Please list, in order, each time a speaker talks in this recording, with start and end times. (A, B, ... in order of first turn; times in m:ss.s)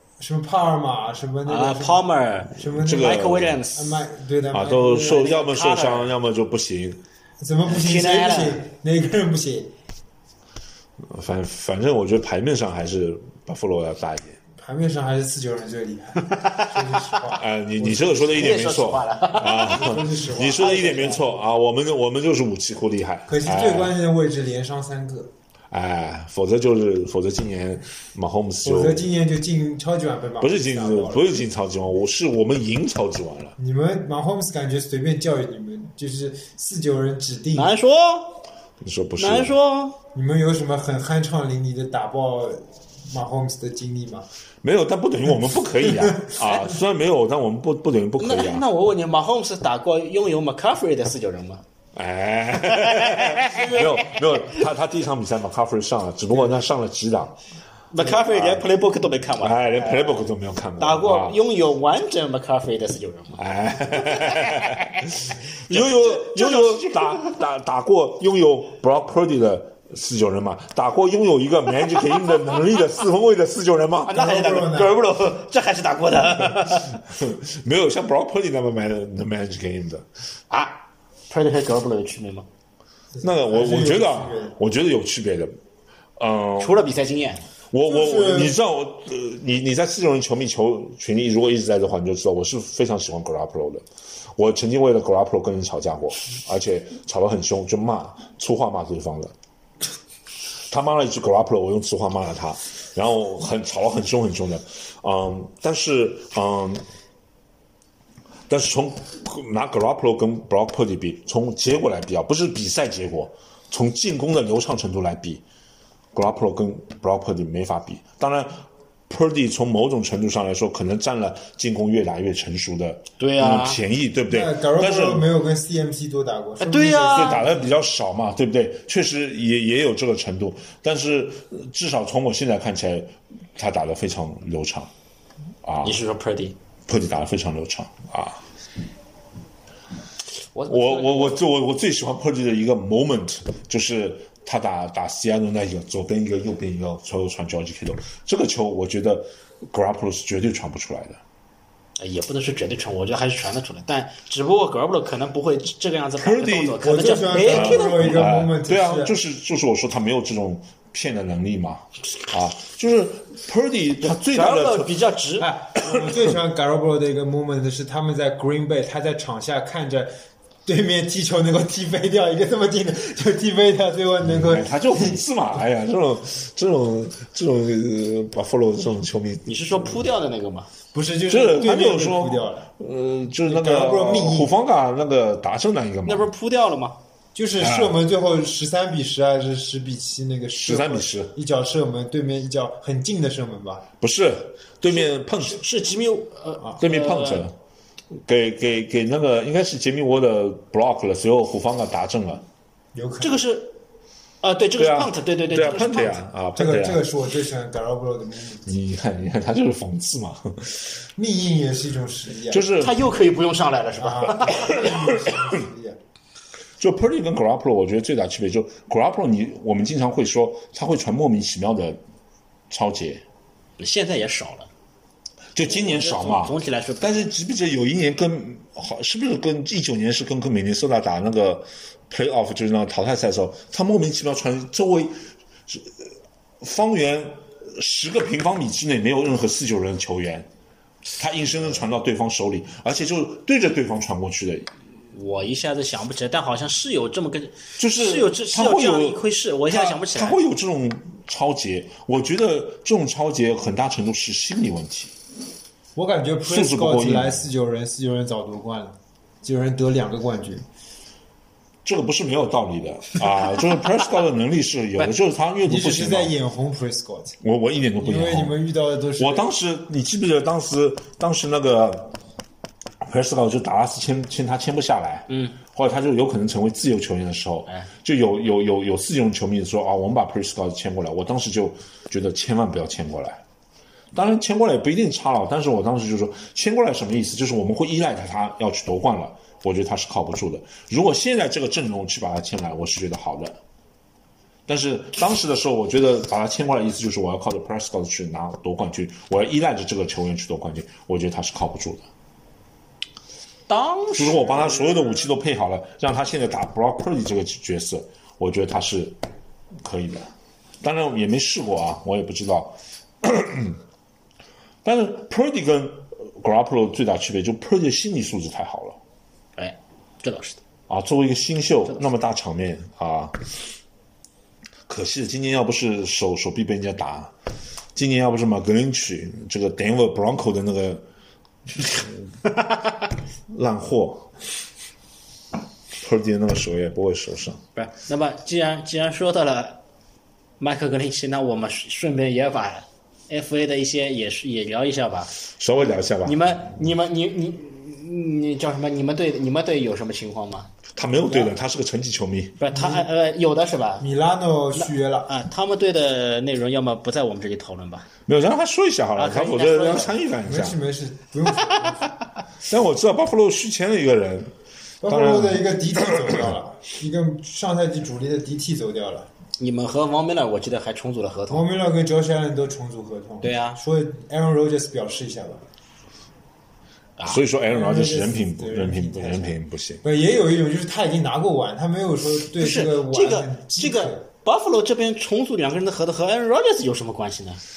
0:00.2-0:05.4 A
0:01.4-0:04.0 B
0:02.7-0:03.6 C
0:04.5-0:07.0 C
0:05.0-0:06.1 B
0:07.4-0:09.7 A
0:07.7-0:08.6 B
0:11.0-0:14.4 C
0:14.6-0:18.6 A
0:16.2-0:16.7 B
0:17.3-0:24.0 C
0:18.3-0:20.0 B
0:19.6-0:21.4 A
0:20.6-0:21.2 B
0:23.3-0:25.3 A
0:25.7-0:29.0 C
0:28.6-0:31.2 A
0:30.4-0:33.6 C
0:33.6-0:37.7 A
0:37.5-0:38.4 B
0:38.8-0:39.6 C
0:39.2-0:40.0 B
0:40.1-0:44.3 A
0:44.6-0:48.6 C
0:45.9-0:46.3 A
0:48.2-0:51.6 B
0:51.9-0:57.4 C
0:52.7-0:54.6 B
0:57.9-1:00.2 B
0:58.0-0:58.7 C
0:59.4-1:01.4 C
1:00.8-1:05.0 B
1:03.4-1:14.2 C
1:05.6-1:07.4 B
1:14.0-1:17.0 B
1:14.1-1:15.0 A
1:17.0-1:20.1 C
1:20.5-1:22.5 B
1:23.2-1:24.6 A
1:23.2-1:25.6 C
1:26.2-1:26.8 C
1:26.6-1:27.4 B
1:27.7-1:39.3 C
1:27.8-1:28.5 A
1:40.7-1:46.8 C
1:48.5-1:55.4 C
1:56.1-2:05.3 C
2:03.2-2:03.8 B
2:04.3-2:07.5 A
2:06.6-2:07.5 B
2:07.0-2:14.9 C
2:15.6-2:16.0 C
2:15.8-2:16.6 B
2:16.9-2:18.4 C
2:20.5-2:21.4 B
2:20.7-2:31.2 C
2:32.0-2:38.1 B
2:36.2-2:44.9 C
2:36.8-2:39.1 A
2:44.0-2:45.5 B
2:45.4-2:55.2 A
2:45.8-2:46.3 C
2:54.2-2:59.9 C
2:59.4-3:00.7 B
3:00.9-3:02.7 A
3:01.3-3:06.3 C
3:03.4-3:04.5 A
3:06.0-3:07.0 B
3:07.3-3:13.9 A
3:07.6-3:08.0 C
3:10.6-3:11.3 C
3:14.0-3:15.6 C
3:14.9-3:17.5 B
3:16.8-3:17.6 C
3:18.1-3:22.4 C
3:22.9-3:23.4 A
3:23.2-3:23.8 B
3:24.4-3:26.2 B
3:24.8-3:27.0 C
3:26.5-3:28.7 A
3:28.6-3:30.9 C
3:31.2-3:32.7 A
3:32.5-3:33.0 C
3:32.8-3:34.8 B
3:34.0-3:36.0 A
3:34.5-3:35.4 C
3:36.8-3:42.0 C
3:42.7-3:43.2 C
3:43.8-3:44.7 B
3:45.5-3:56.0 C
3:45.6-3:47.3 B
3:56.6-4:00.5 C
4:01.2-4:04.7 C
4:05.1-4:10.4 B
4:07.8-4:15.1 C
4:16.0-4:20.6 A
4:16.4-4:17.4 C
4:21.8-4:26.3 C
4:25.6-4:27.4 A
4:27.4-4:28.6 C
4:28.0-4:29.5 A
4:29.2-4:32.2 C
4:33.0-4:43.4 C
4:35.3-4:35.6 B
4:44.1-4:53.6 C
4:54.7-5:02.0 C
5:03.7-5:05.2 B
5:04.1-5:09.2 C
5:09.8-5:10.3 C
5:10.8-5:13.8 C
5:14.8-5:19.0 C
5:19.6-5:20.6 B
5:20.9-5:23.4 C
5:24.9-5:27.3 C
5:27.9-5:31.0 C
5:31.8-5:32.2 C
5:33.5-5:34.3 C
5:36.0-5:37.6 C
5:37.7-5:39.8 B
5:40.6-5:45.3 B
5:45.6-5:46.6 C
5:46.2-5:50.7 B
5:50.9-5:52.6 C
5:52.6-5:54.1 B
5:52.7-5:53.1 A
5:54.0-5:55.3 A
5:54.7-5:58.1 B
5:58.2-6:00.8 C
5:59.2-6:00.2 B
6:00.4-6:02.2 A
6:02.6-6:06.5 C
6:05.0-6:09.3 A
6:09.6-6:11.6 B
6:11.5-6:15.6 A
6:13.4-6:13.8 B
6:17.2-6:20.0 C
6:17.7-6:24.2 A
6:22.6-6:27.6 B